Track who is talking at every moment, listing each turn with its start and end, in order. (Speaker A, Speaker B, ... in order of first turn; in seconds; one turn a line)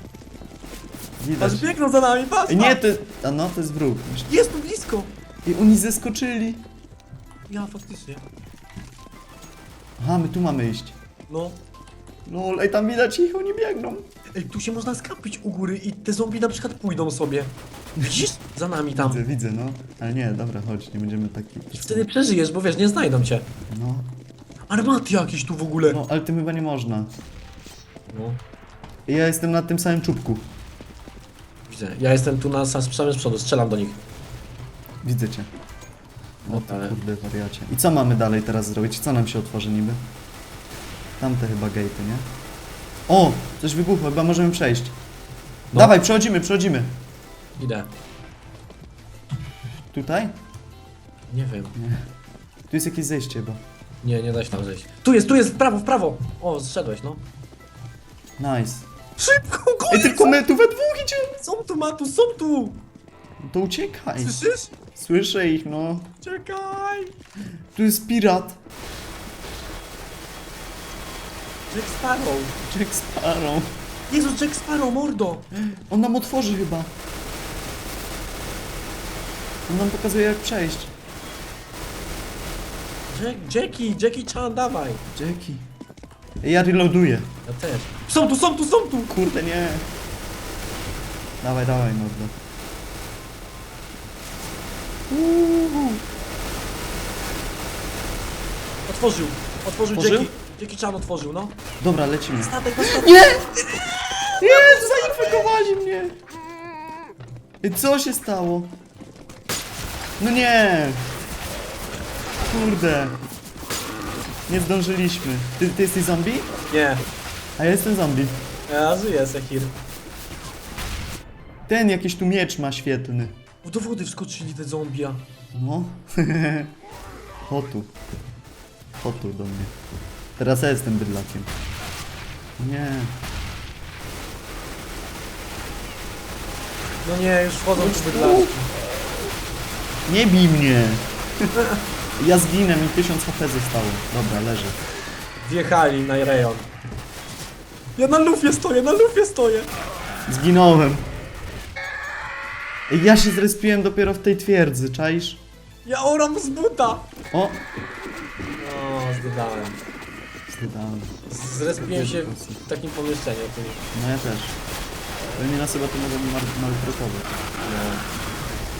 Speaker A: 1.2-1.7
Speaker B: 1.4-2.8
Speaker A: 2.5-4.3
Speaker B: 4.3-5.1
Speaker A: 5.4-6.6
Speaker B: 7.5-8.2
Speaker A: 10.0-10.9
Speaker B: 11.3-11.6
Speaker A: 12.2-14.0
Speaker B: 14.3-19.2
Speaker A: 18.0-18.2
Speaker A: 18.9-22.1
Speaker B: 21.7-23.5
Speaker A: 23.7-24.1
Speaker B: 24.7-26.0
Speaker A: 25.8-27.1
Speaker B: 28.1-28.4
Speaker A: 29.1-30.4
Speaker B: 31.7-34.0
Speaker A: 35.0-35.5
Speaker B: 36.4-37.0
Speaker A: 36.5-40.0
Speaker A: 41.2-42.3
Speaker A: 43.1-45.0
Speaker B: 45.7-46.0
Speaker A: 45.7-46.9
Speaker B: 47.6-47.9
Speaker A: 49.9-50.3
Speaker B: 51.3-51.7
Speaker A: 51.8-52.0
Speaker A: 52.7-53.6
Speaker B: 54.0-57.2
Speaker A: 58.4-58.9
Speaker B: 59.2-60.4
Speaker A: 59.9-61.4
Speaker B: 61.4-62.8
Speaker A: 63.4-64.4
Speaker B: 64.2-64.7
Speaker A: 64.9-66.2
Speaker B: 66.2-67.1
Speaker A: 67.7-68.6
Speaker B: 71.7-72.6
Speaker A: 72.6-73.7
Speaker B: 74.1-75.5
Speaker A: 75.7-76.9
Speaker A: 79.7-80.9
Speaker B: 83.1-85.0
Speaker A: 85.1-85.6
Speaker A: 86.4-87.3
Speaker B: 87.5-89.1
Speaker A: 89.1-89.9
Speaker A: 91.4-92.3
Speaker A: 95.1-96.0
Speaker B: 98.8-101.5
Speaker A: 99.9-100.3
Speaker A: 101.8-103.5
Speaker B: 102.3-105.5
Speaker A: 104.4-106.1
Speaker A: 107.6-108.8
Speaker A: 110.2-111.0
Speaker A: 112.4-113.2
Speaker A: 114.5-116.5
Speaker B: 116.7-117.0
Speaker A: 117.6-118.4
Speaker B: 118.7-119.8
Speaker A: 121.7-123.3
Speaker B: 123.6-125.2
Speaker A: 125.5-126.7
Speaker A: 127.5-127.9
Speaker A: 129.0-129.7
Speaker A: 130.4-131.5
Speaker A: 132.6-133.1
Speaker B: 137.0-138.7
Speaker A: 137.7-138.5
Speaker A: 140.1-141.1
Speaker B: 141.5-141.8
Speaker A: 142.2-144.8
Speaker B: 145.4-146.7
Speaker B: 147.9-149.7
Speaker A: 150.3-151.1
Speaker A: 152.9-155.4
Speaker B: 155.8-157.1
Speaker A: 157.3-157.6
Speaker B: 158.6-159.8
Speaker A: 160.5-161.1
Speaker B: 161.3-163.8
Speaker A: 161.7-162.6
Speaker A: 163.9-164.6
Speaker A: 165.4-167.4
Speaker B: 167.6-168.1